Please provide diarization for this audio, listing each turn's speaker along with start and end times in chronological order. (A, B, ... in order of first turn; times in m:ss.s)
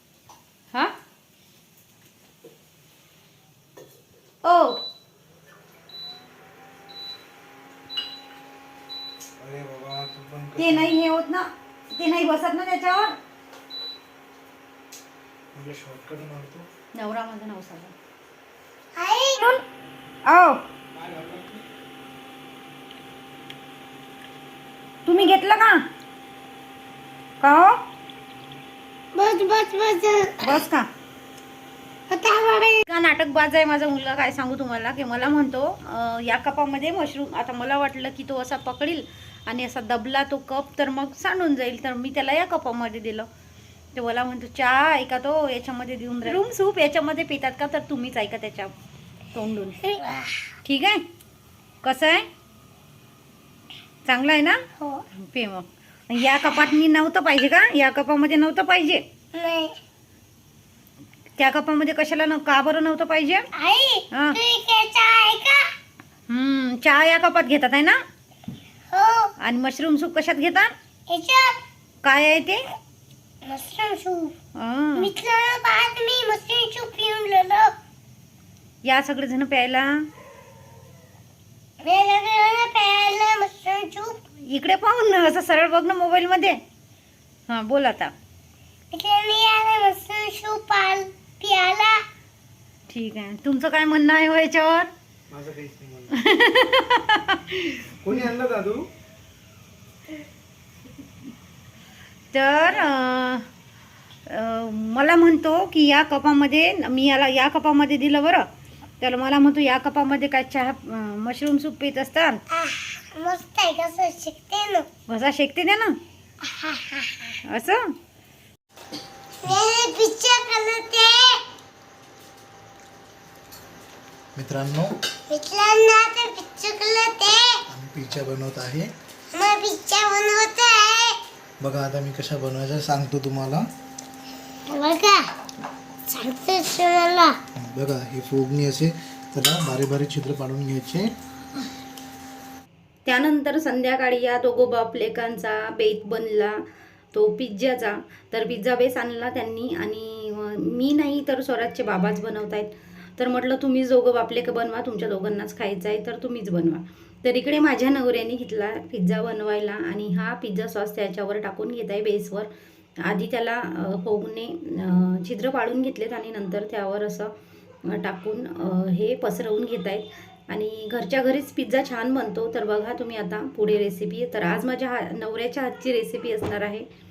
0:04.4-0:04.8 A
0:09.4-0:10.9 B
0:10.6-0:13.2 A
0:15.6-0:16.7 B
0:17.0-0:17.9 A
0:19.0-0:19.4 C
0:19.4-0:19.6 A
0:20.3-0:20.6 A
0:21.0-0:21.6 B
0:25.1-0:25.8 A
0:27.4-0:27.8 A
0:29.1-0:30.4 C
0:30.4-0:30.9 A
0:32.1-0:32.8 C
0:32.8-0:43.3 A
0:44.0-0:48.7 A
0:49.3-0:49.8 A
0:49.8-0:50.5 C
0:50.6-0:51.0 A
0:51.8-0:52.3 A
0:54.1-0:54.6 A
0:54.8-0:55.0 C
0:55.1-0:59.0 A
0:59.3-0:59.8 C
1:01.4-1:03.5 A
1:03.6-1:05.7 C
1:04.1-1:04.4 A
1:06.3-1:08.0 A
1:08.9-1:09.3 C
1:09.4-1:10.7 A
1:11.1-1:11.6 C
1:12.0-1:12.7 A
1:13.4-1:14.4 C
1:14.6-1:15.1 A
1:15.0-1:17.7 C
1:18.8-1:20.1 A
1:21.8-1:24.2 C
1:24.4-1:26.6 A
1:27.5-1:28.1 A
1:28.9-1:32.0 C
1:32.9-1:34.9 A
1:35.3-1:36.1 B
1:36.2-1:37.9 A
1:38.0-1:38.9 B
1:42.3-1:43.5 A
1:44.3-1:48.5 A
1:49.0-1:52.4 A
1:52.5-1:54.9 C
1:55.1-1:56.0 A
1:56.5-1:57.3 C
1:57.5-1:57.9 A
1:59.4-2:01.4 C
2:04.4-2:04.9 D
2:05.3-2:07.6 C
2:07.7-2:08.9 D
2:09.3-2:11.2 C
2:11.6-2:13.6 D
2:14.7-2:15.3 C
2:16.1-2:17.4 C
2:17.6-2:21.1 D
2:23.1-2:26.6 A
2:27.1-2:42.5 A
2:43.0-2:47.3 A
2:47.8-2:56.9 A